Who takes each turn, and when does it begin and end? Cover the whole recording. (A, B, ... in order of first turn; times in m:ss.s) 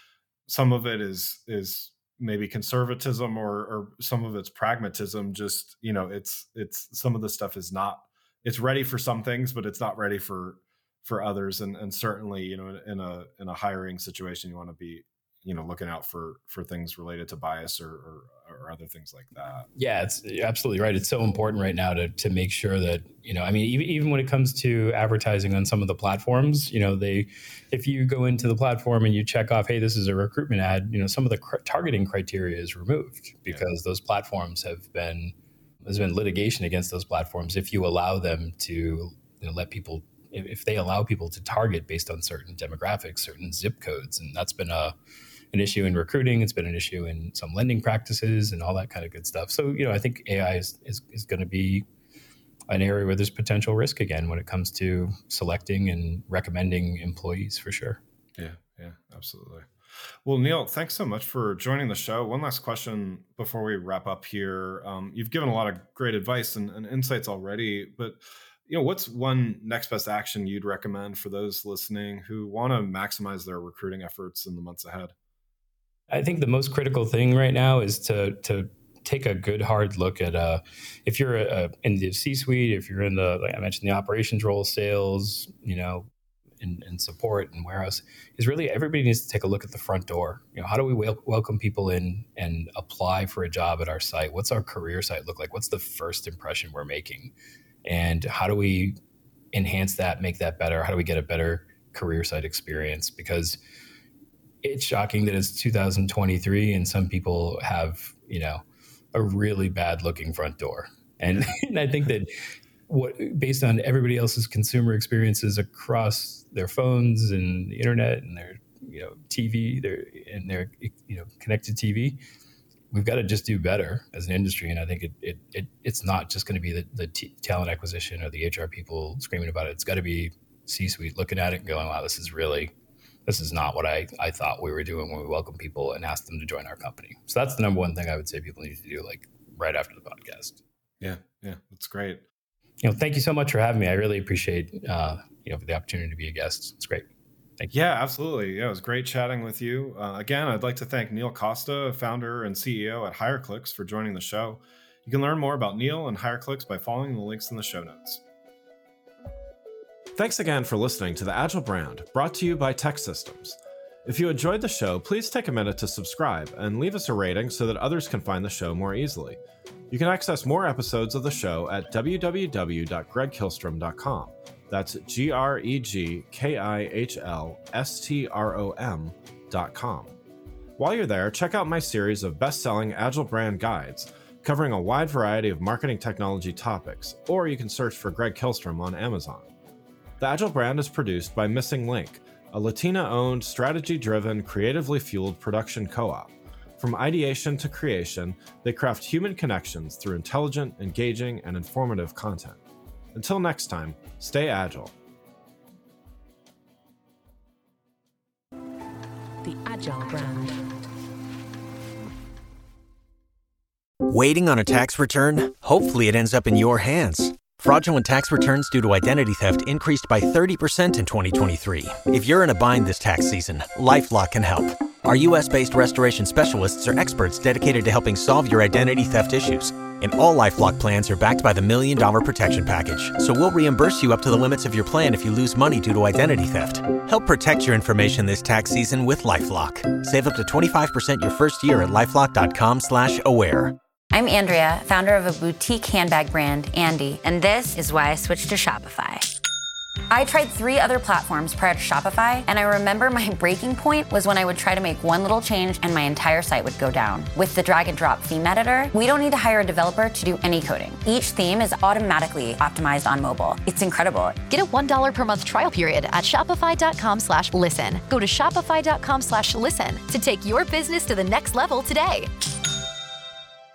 0:00.5-0:19.7 A
0:19.8-0:45.0 B
0:45.5-0:51.8 B
0:52.7-0:58.0 B
0:58.4-1:15.1 A
1:16.1-1:26.1 B
1:26.6-1:37.3 B
1:37.8-1:39.0 B
1:39.5-1:43.6 B
1:44.6-1:48.6 B
1:49.1-1:52.3 B
1:52.9-2:02.2 B
2:02.9-2:12.7 B
2:13.2-2:20.6 B
2:21.0-2:22.2 A
2:22.8-2:27.1 B
2:27.7-2:38.2 A
2:40.2-2:49.4 A
2:49.9-3:00.2 A
3:00.8-3:09.5 A
3:10.2-3:22.6 A
3:23.1-3:24.9 A
3:29.4-3:30.6 C
3:34.1-4:03.8 D
4:04.1-4:09.3 E
4:10.1-4:24.4 E
4:24.5-4:32.3 C